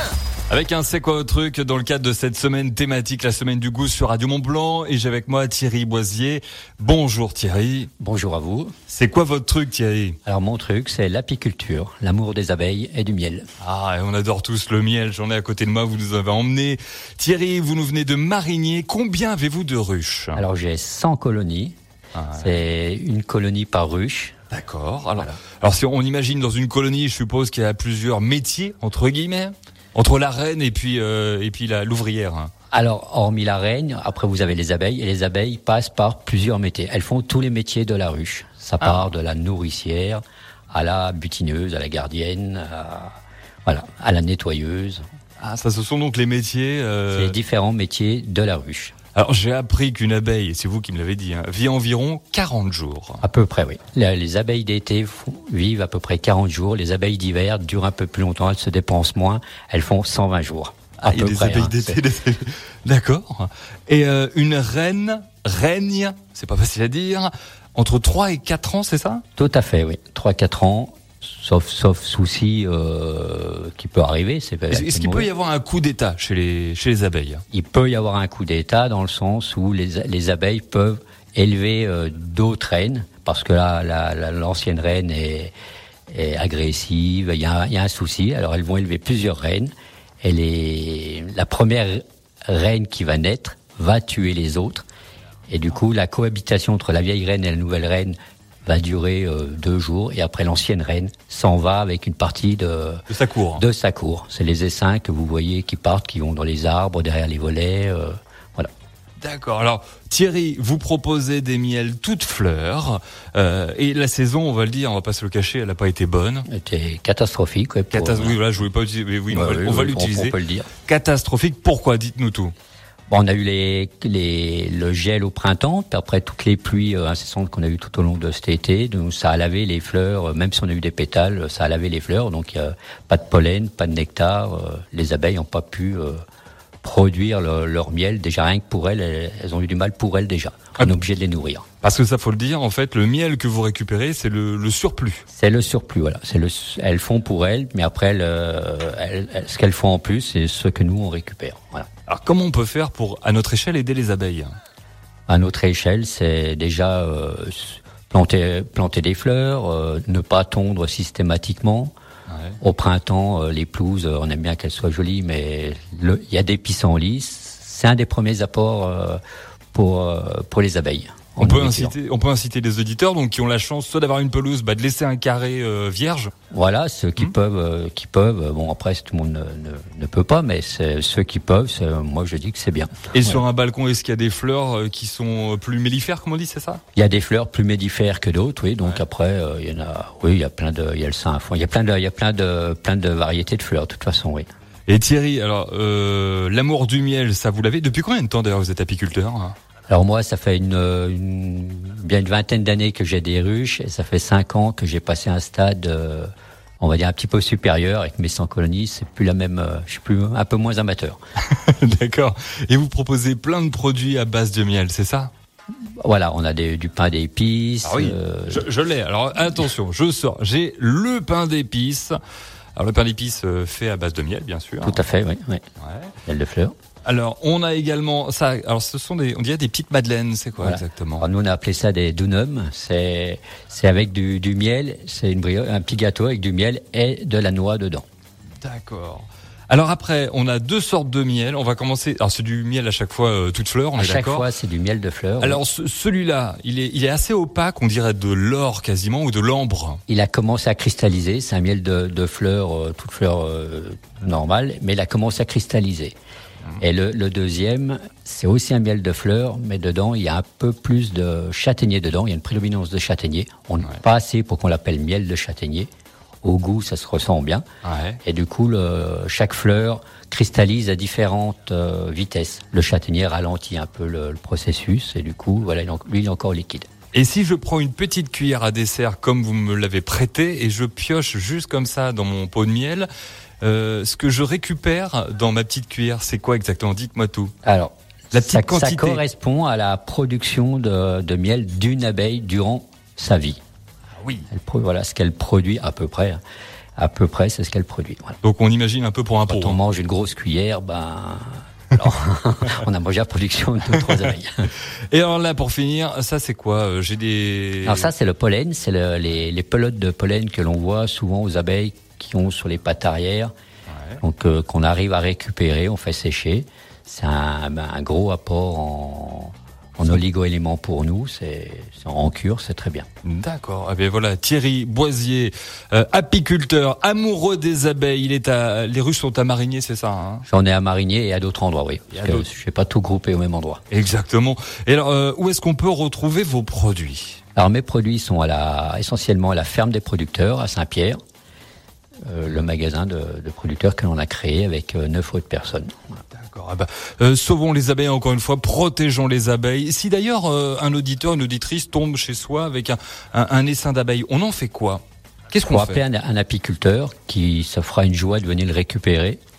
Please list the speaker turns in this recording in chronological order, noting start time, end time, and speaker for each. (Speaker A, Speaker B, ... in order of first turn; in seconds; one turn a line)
Speaker A: 0.5-7.9
Speaker B: 8.0-8.7
Speaker A: 8.9-10.2
Speaker B: 10.2-13.5
Speaker A: 13.6-20.4
Speaker B: 20.3-21.8
Speaker A: 22.1-22.6
Speaker B: 22.3-24.4
Speaker A: 24.5-32.5
Speaker B: 32.7-45.0
Speaker A: 38.8-39.1
Speaker A: 45.4-47.4
Speaker B: 47.1-48.9
Speaker A: 49.1-53.2
Speaker B: 53.2-62.0
Speaker A: 61.0-69.2
Speaker B: 69.3-75.3
Speaker A: 74.7-77.4
Speaker B: 77.5-85.5
Speaker B: 86.1-94.8
Speaker B: 95.5-103.0
Speaker A: 103.1-103.6
Speaker B: 103.6-108.7
Speaker A: 109.2-116.5
Speaker B: 116.5-118.5
Speaker A: 117.9-122.5
Speaker B: 119.3-120.7
Speaker B: 123.1-136.2
Speaker B: 136.8-141.7
Speaker A: 141.8-145.2
Speaker B: 145.3-151.9
Speaker A: 152.1-154.6
Speaker B: 155.3-161.9
Speaker A: 162.3-162.6
Speaker B: 162.6-169.2
Speaker B: 169.7-171.9
Speaker A: 171.4-176.3
Speaker B: 176.5-183.4
Speaker A: 183.1-186.8
Speaker B: 186.9-194.5
Speaker A: 194.9-199.6
Speaker B: 199.9-211.2
Speaker A: 211.4-215.3
Speaker B: 216.0-218.7
Speaker A: 217.8-222.2
Speaker A: 222.8-225.0
Speaker B: 224.8-225.6
Speaker A: 225.8-226.1
Speaker B: 226.2-226.7
Speaker A: 227.0-231.3
Speaker B: 230.6-238.0
Speaker A: 238.6-244.5
Speaker B: 243.9-245.6
Speaker A: 245.4-250.0
Speaker B: 250.1-256.1
Speaker B: 256.8-265.9
Speaker B: 266.4-267.6
Speaker A: 267.8-268.2
Speaker B: 268.2-276.9
Speaker A: 277.1-283.1
Speaker A: 283.6-287.5
Speaker B: 287.6-293.6
Speaker A: 288.3-289.2
Speaker A: 294.2-294.5
Speaker B: 294.5-296.4
Speaker B: 297.0-298.4
Speaker A: 298.4-299.8
Speaker B: 299.5-304.7
Speaker A: 305.1-308.1
Speaker B: 307.8-313.5
Speaker B: 314.2-323.1
Speaker A: 323.2-330.4
Speaker B: 330.5-333.8
Speaker A: 332.1-332.5
Speaker A: 333.9-337.4
Speaker B: 337.5-341.2
Speaker B: 342.2-345.9
Speaker A: 346.3-356.0
Speaker B: 355.7-359.4